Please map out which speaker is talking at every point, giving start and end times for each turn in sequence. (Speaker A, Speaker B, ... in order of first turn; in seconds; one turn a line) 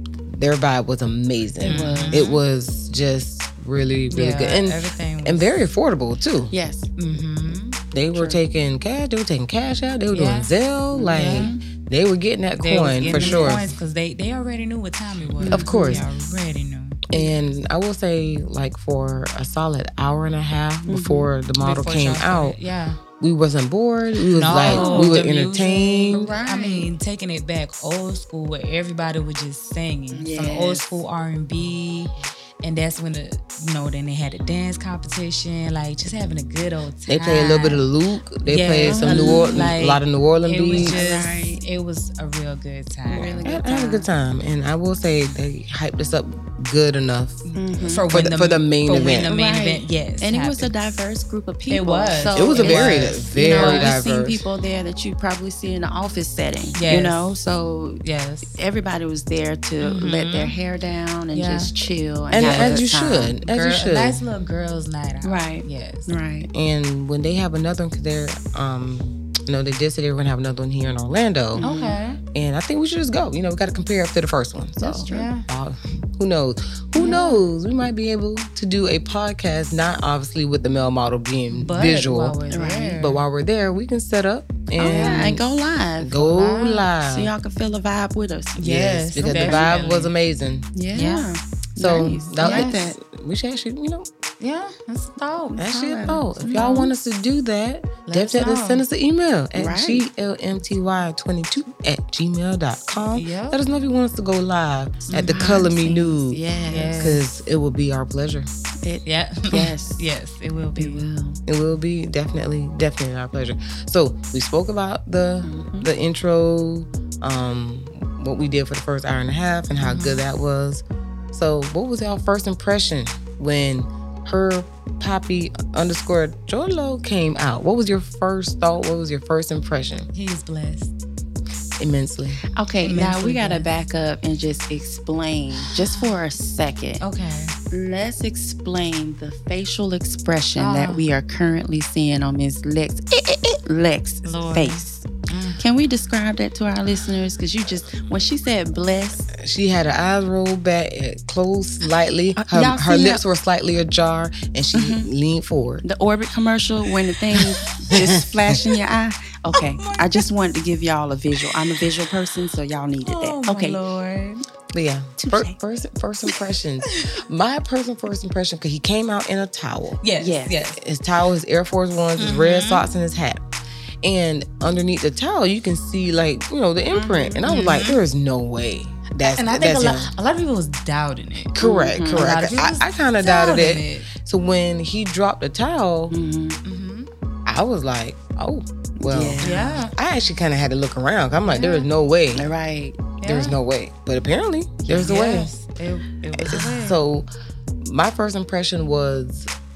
Speaker A: 0.3-6.5
Speaker B: 1.6-2.2
Speaker C: 1.6-2.4
Speaker C: 4.1-5.5
Speaker B: 6.5-6.9
Speaker C: 7.0-7.8
Speaker A: 7.9-13.7
Speaker B: 8.1-8.4
Speaker C: 10.1-11.5
Speaker B: 11.1-11.6
Speaker C: 12.6-17.3
Speaker B: 13.0-13.7
Speaker B: 15.4-16.1
Speaker A: 15.5-16.1
Speaker A: 17.1-22.6
Speaker B: 20.9-21.3
Speaker C: 21.6-23.0
Speaker A: 23.2-26.3
Speaker C: 24.3-37.9
Speaker B: 24.6-25.2
Speaker B: 26.1-26.9
Speaker B: 30.1-31.0
Speaker A: 37.1-41.0
Speaker C: 38.5-44.0
Speaker B: 38.9-39.7
Speaker B: 40.7-41.6
Speaker B: 43.1-44.0
Speaker A: 43.4-47.4
Speaker C: 47.5-50.7
Speaker B: 47.6-48.1
Speaker A: 48.1-49.3
Speaker B: 49.0-63.4
Speaker C: 51.7-54.0
Speaker A: 52.3-54.4
Speaker C: 56.8-57.3
Speaker C: 58.0-58.5
Speaker C: 59.8-60.6
Speaker C: 61.3-61.7
Speaker A: 62.3-64.2
Speaker C: 62.4-62.8
Speaker C: 63.4-66.1
Speaker B: 65.2-66.5
Speaker A: 66.5-71.7
Speaker B: 71.6-72.0
Speaker C: 71.6-72.2
Speaker A: 72.3-82.4
Speaker B: 74.8-75.3
Speaker C: 75.1-75.5
Speaker B: 77.0-77.2
Speaker C: 77.0-77.5
Speaker C: 81.5-83.2
Speaker B: 82.5-83.0
Speaker A: 83.0-85.4
Speaker B: 84.8-86.2
Speaker C: 84.9-85.4
Speaker A: 86.0-87.3
Speaker C: 86.2-86.9
Speaker B: 87.0-89.8
Speaker C: 88.6-90.1
Speaker A: 88.6-90.7
Speaker B: 90.8-93.0
Speaker C: 90.9-91.3
Speaker A: 91.8-94.1
Speaker C: 92.4-92.9
Speaker C: 94.4-95.6
Speaker B: 95.6-96.9
Speaker A: 95.6-106.4
Speaker C: 96.5-96.9
Speaker C: 98.1-98.8
Speaker B: 99.5-100.0
Speaker C: 103.1-103.6
Speaker C: 105.1-105.6
Speaker B: 105.2-107.2
Speaker C: 106.7-107.2
Speaker A: 107.0-108.5
Speaker B: 108.8-110.1
Speaker C: 109.0-111.1
Speaker B: 110.8-111.4
Speaker A: 111.5-130.1
Speaker B: 115.4-115.9
Speaker C: 119.8-120.3
Speaker C: 130.1-130.9
Speaker A: 131.8-132.4
Speaker B: 132.6-137.0
Speaker C: 132.8-133.7
Speaker C: 135.6-136.2
Speaker C: 137.0-137.6
Speaker B: 137.7-145.1
Speaker C: 140.6-141.1
Speaker C: 144.2-145.6
Speaker B: 145.6-149.3
Speaker A: 149.3-155.8
Speaker B: 152.4-153.2
Speaker B: 154.7-155.1
Speaker B: 155.8-163.8
Speaker A: 157.9-158.2
Speaker C: 159.6-160.2
Speaker C: 163.0-164.4
Speaker A: 164.7-170.0
Speaker B: 165.2-165.6
Speaker C: 170.0-170.8
Speaker B: 170.2-170.6
Speaker A: 170.8-173.4
Speaker C: 172.2-172.9
Speaker A: 174.0-180.1
Speaker B: 176.9-177.7
Speaker C: 177.5-178.0
Speaker C: 179.2-181.6
Speaker A: 181.6-186.2
Speaker B: 181.6-182.3
Speaker C: 182.1-184.1
Speaker B: 186.1-186.6
Speaker C: 186.7-187.1
Speaker A: 187.5-192.5
Speaker B: 189.0-189.9
Speaker C: 189.4-189.9
Speaker C: 191.5-191.9
Speaker B: 192.3-193.1
Speaker C: 193.2-193.6
Speaker A: 193.2-195.5
Speaker B: 194.9-195.1
Speaker C: 195.0-197.0
Speaker A: 196.3-197.3
Speaker A: 197.8-199.5